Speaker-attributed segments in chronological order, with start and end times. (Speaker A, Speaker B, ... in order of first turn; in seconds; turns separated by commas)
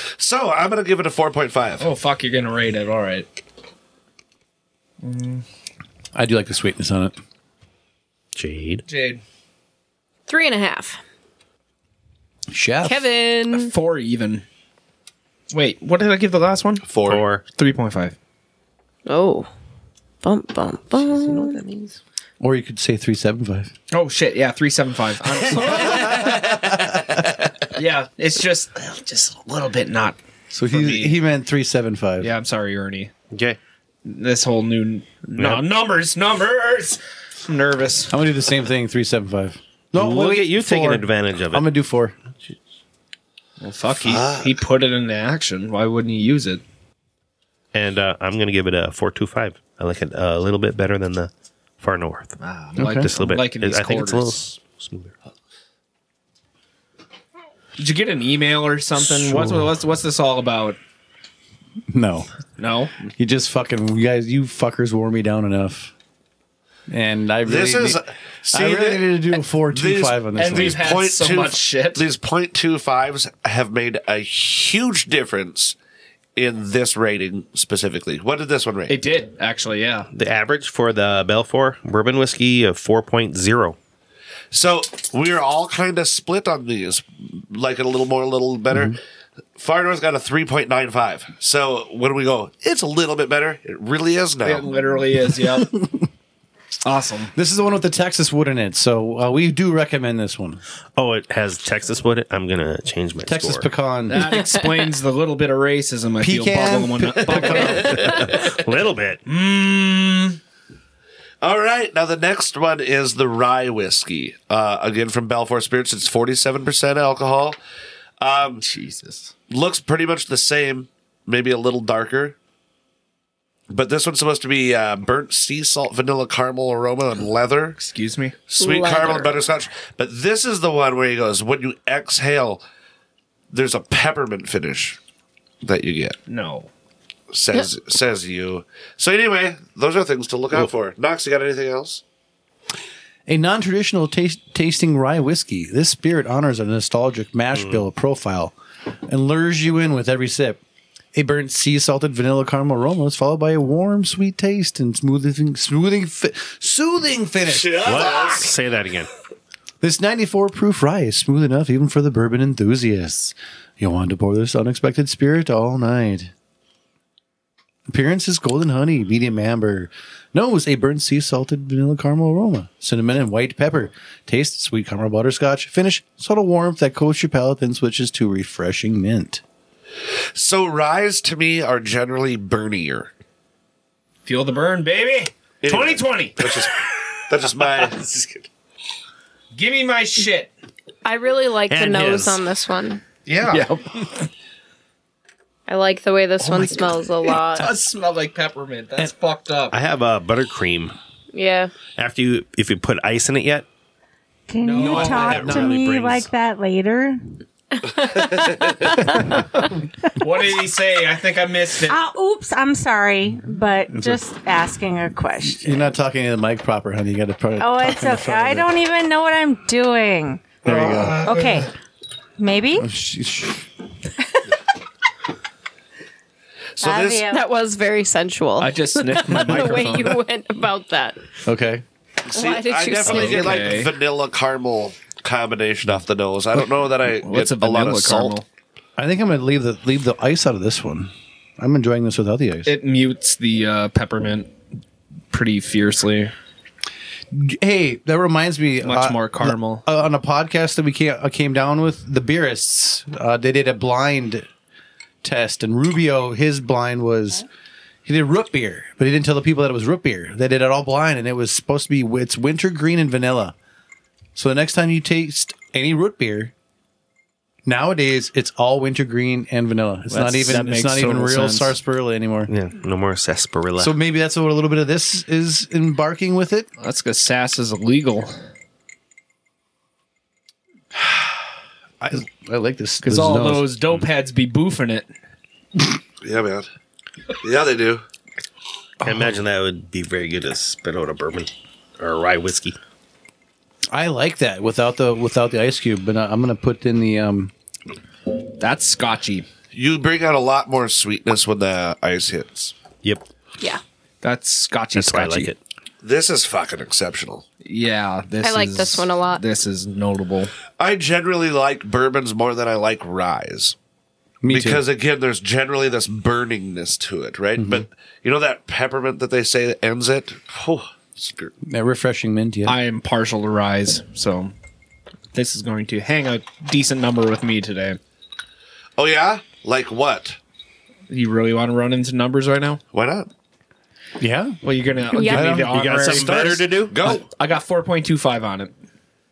Speaker A: 0.2-1.9, Speaker B: 1.8-3.3, Speaker B: 5.0-5.5, Speaker C: 6.1-7.2, Speaker D: 8.3-8.8, Speaker B: 8.9-9.2, Speaker E: 10.3-11.0, Speaker C: 12.5-13.1, Speaker E: 12.8-13.7, Speaker B: 13.5-14.4, Speaker B: 15.5-16.9, Speaker A: 16.9-17.2, Speaker D: 17.1-17.4, Speaker B: 17.6-18.1, Speaker E: 19.1-19.5, Speaker E: 20.2-21.6, Speaker D: 21.1-22.0, Speaker C: 22.4-23.7, Speaker B: 23.9-26.4, Speaker B: 27.7-30.2, Speaker C: 30.5-32.3, Speaker B: 30.7-31.2, Speaker B: 32.2-33.1, Speaker D: 33.3-33.6, Speaker B: 34.0-38.2, Speaker D: 35.4-35.6, Speaker C: 38.1-42.1, Speaker D: 40.0-41.6, Speaker B: 43.6-46.6, Speaker A: 44.0-44.6, Speaker D: 47.7-52.4, Speaker B: 52.4-54.4, Speaker C: 52.8-53.1, Speaker D: 52.9-55.1, Speaker B: 57.8-60.8, Speaker C: 59.1-59.7, Speaker C: 61.9-62.3, Speaker B: 62.6-63.1, Speaker C: 63.2-65.9, Speaker C: 66.9-70.8, Speaker A: 67.5-69.1, Speaker A: 69.7-75.8, Speaker B: 70.4-72.1, Speaker A: 76.4-79.0, Speaker B: 78.9-80.1, Speaker D: 80.1-83.8, Speaker A: 84.5-89.0, Speaker A: 89.6-94.7, Speaker B: 94.4-95.8, Speaker C: 95.6-96.0, Speaker B: 96.8-97.3, Speaker C: 97.3-100.6, Speaker D: 101.0-103.7, Speaker C: 103.3-104.3, Speaker B: 104.1-108.2, Speaker E: 104.4-104.8, Speaker C: 106.2-108.3, Speaker D: 107.7-109.2, Speaker B: 109.3-110.4, Speaker A: 111.4-117.6, Speaker A: 118.2-118.6, Speaker B: 118.6-119.3, Speaker A: 119.5-122.4, Speaker A: 123.7-127.8, Speaker B: 127.8-128.4, Speaker A: 128.5-132.6, Speaker E: 128.6-129.4, Speaker A: 133.5-135.0, Speaker A: 135.6-136.2, Speaker B: 136.3-136.7, Speaker A: 137.3-142.0, Speaker C: 143.3-148.5, Speaker D: 147.6-147.8, Speaker C: 149.1-150.6, Speaker C: 151.1-158.1, Speaker A: 157.5-158.5, Speaker D: 157.8-159.1, Speaker C: 159.8-166.3, Speaker C: 167.9-179.4, Speaker A: 180.3-183.1, Speaker B: 184.3-186.5, Speaker A: 185.6-186.8, Speaker A: 187.3-188.4, Speaker B: 189.5-190.5, Speaker E: 191.1-193.0, Speaker D: 191.7-192.4, Speaker A: 193.3-193.7, Speaker B: 193.5-194.3, Speaker E: 195.7-197.7, Speaker B: 196.5-199.8, Speaker D: 199.7-200.9, Speaker E: 201.3-201.7, Speaker D: 202.0-203.7, Speaker F: 204.5-207.3, Speaker B: 204.6-205.5, Speaker C: 204.8-205.8, Speaker D: 204.8-206.3, Speaker E: 207.8-209.3, Speaker B: 210.2-212.0, Speaker F: 211.9-215.9, Speaker C: 213.9-214.2, Speaker C: 215.4-218.6, Speaker F: 217.6-220.6, Speaker C: 220.6-221.3, Speaker B: 220.8-221.4, Speaker F: 221.2-221.7, Speaker F: 222.4-222.9, Speaker C: 222.8-223.7, Speaker A: 226.8-227.3, Speaker F: 226.8-227.5, Speaker E: 227.3-231.2, Speaker B: 228.6-230.2, Speaker C: 231.4-231.8, Speaker A: 232.3-238.3, Speaker E: 232.3-233.8, Speaker B: 233.1-233.9, Speaker B: 237.1-238.5, Speaker C: 239.0-242.7, Speaker B: 242.6-244.5, Speaker B: 245.3-246.3, Speaker C: 247.3-254.5, Speaker B: 248.8-249.8, Speaker C: 255.2-257.4, Speaker C: 258.1-263.6, Speaker C: 264.4-266.5, Speaker C: 267.6-272.5, Speaker B: 270.1-271.8, Speaker D: 272.5-273.9, Speaker C: 273.8-276.7, Speaker B: 276.8-278.4, Speaker C: 281.0-281.3, Speaker C: 282.0-283.7, Speaker B: 283.0-285.1, Speaker A: 286.2-286.7, Speaker A: 287.4-288.0, Speaker D: 289.0-292.8, Speaker C: 289.0-289.3, Speaker C: 293.9-297.5, Speaker B: 298.6-299.5, Speaker A: 299.7-302.7, Speaker B: 304.2-305.5, Speaker D: 304.9-305.6, Speaker A: 306.0-307.4, Speaker B: 307.6-310.5, Speaker E: 308.4-309.4, Speaker A: 310.8-313.8, Speaker C: 314.4-314.8, Speaker A: 314.5-321.5, Speaker C: 317.6-317.9, Speaker C: 321.6-322.8, Speaker B: 322.6-324.5, Speaker B: 325.3-328.0, Speaker A: 329.0-330.4, Speaker B: 331.1-332.8, Speaker A: 332.9-333.3, Speaker C: 334.2-334.6, Speaker B: 334.6-338.7, Speaker E: 335.1-335.6, Speaker C: 335.1-336.4, Speaker D: 335.7-337.1, Speaker A: 336.1-337.2